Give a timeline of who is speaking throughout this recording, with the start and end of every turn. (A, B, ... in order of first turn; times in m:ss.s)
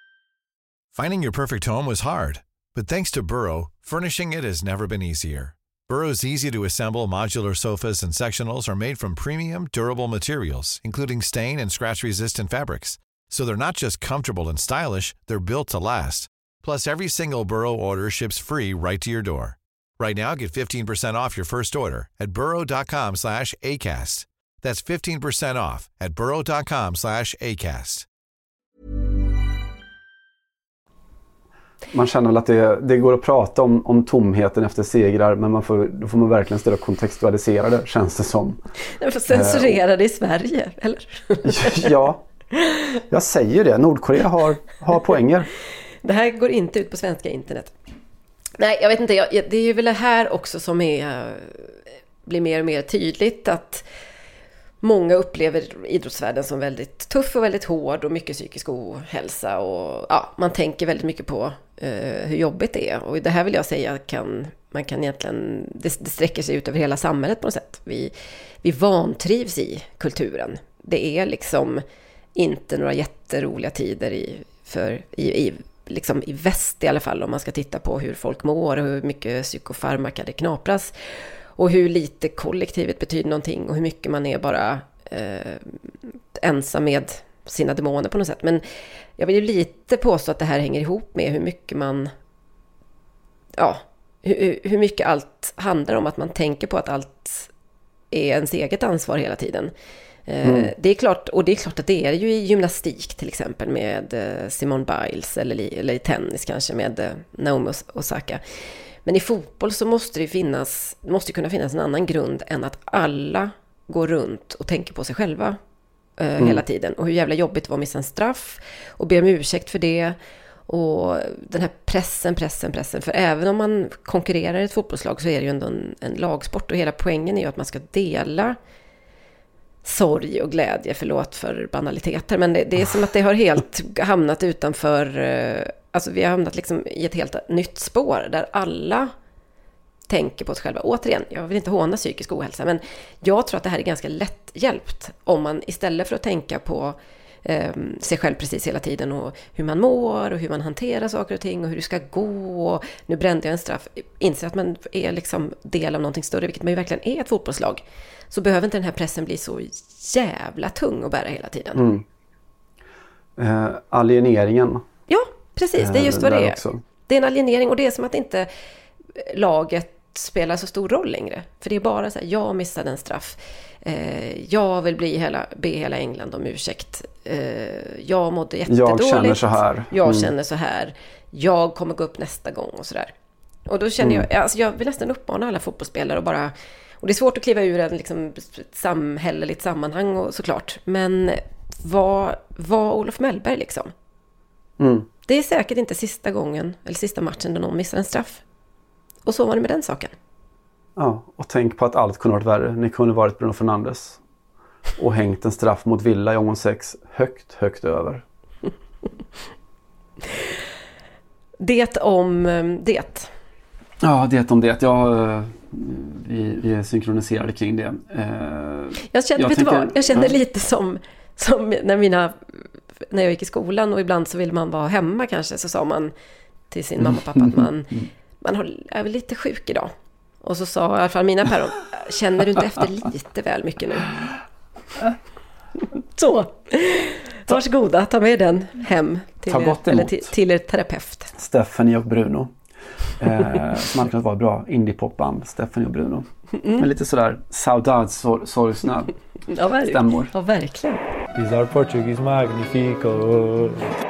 0:01.0-0:28.0 A
0:31.9-0:38.6 B
0:39.0-0:41.9 C
0:39.3-0:39.8 B
0:41.4-0:42.2 B
0:43.1-0:45.5 B
0:46.0-0:47.7 C
0:48.6-0:51.7 C
0:52.3-0:53.8 C
0:54.8-1:11.8 C
1:12.4-1:20.9 C
1:21.6-1:25.8 C
1:26.4-1:28.6 C
1:29.2-1:32.1 C
1:33.6-1:37.5 C
1:38.1-1:39.7 C
1:40.3-1:48.4 C
1:40.4-1:40.7 B
1:49.0-1:55.6 C
1:56.2-2:00.2 C
2:00.7-2:08.6 C
2:09.8-2:19.1 C
2:20.1-2:41.8 C
2:41.8-2:42.0 B
2:43.4-2:44.8 B
2:45.1-2:48.5 C
2:45.8-2:46.8 B
2:49.2-3:03.1 C
2:58.7-3:00.3 B
3:03.7-3:13.9 C
3:04.0-3:04.3 B
3:14.8-3:15.1 B
3:15.3-3:18.4 C
3:19.3-3:20.1 C
3:21.0-3:24.2 B
3:25.0-3:28.2 B
3:31.6-3:33.3 C
3:34.0-3:40.4 B
3:39.1-3:42.4 C
3:43.1-3:46.1 C
3:46.7-3:54.2 C
3:47.0-3:48.0 B
3:56.2-4:01.3 C
3:59.5-4:00.3 B
4:01.3-4:02.5 B
4:03.2-4:09.1 B
4:09.5-4:11.0 C
4:09.8-4:10.3 B
4:11.4-4:13.9 D